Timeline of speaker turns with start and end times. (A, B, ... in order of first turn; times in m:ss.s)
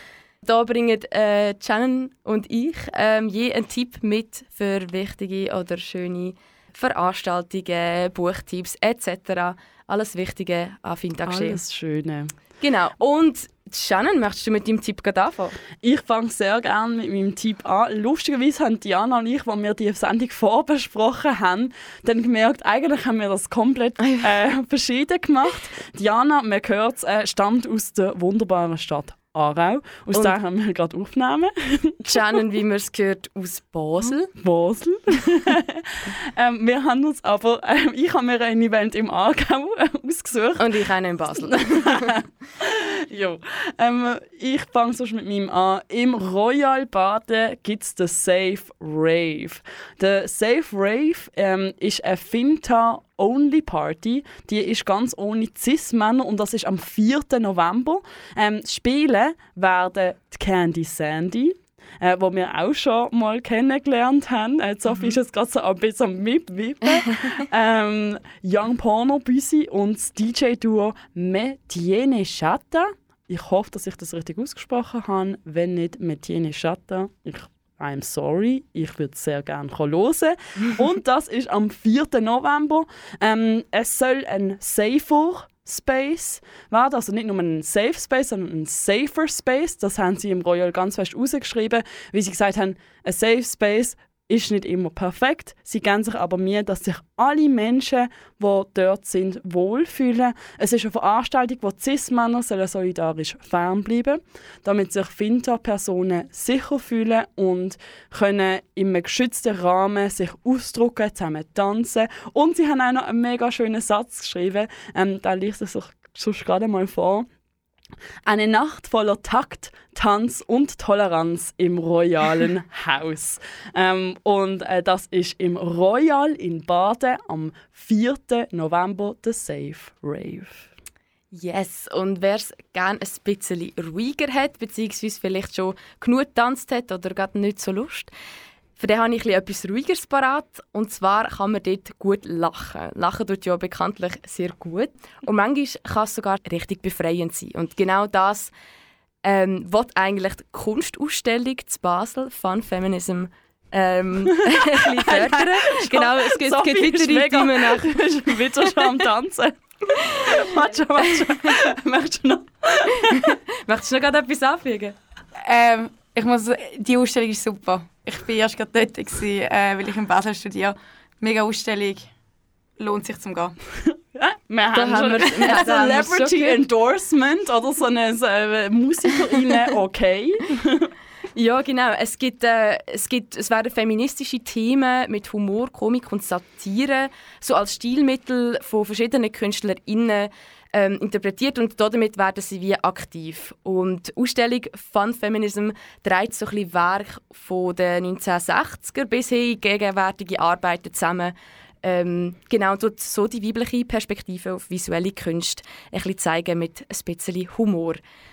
0:00.4-0:11.6 A
0:11.2-0:12.3 B
0:12.6-0:15.6 A
0:15.8-0:32.2 B
0:32.1-0:34.3 A
0:34.4-1:57.3 B
0:40.6-0:42.2 A
1:58.2-2:10.7 B
2:11.3-2:18.1 A
2:18.8-2:28.5 A
2:29.2-2:38.0 A
2:34.8-2:43.4 B
2:38.5-2:38.9 A
2:43.2-2:45.0 A
2:45.4-2:52.1 C
2:52.8-2:53.6 C
2:54.1-3:00.9 B
2:54.7-2:56.6 A
3:01.4-3:28.0 A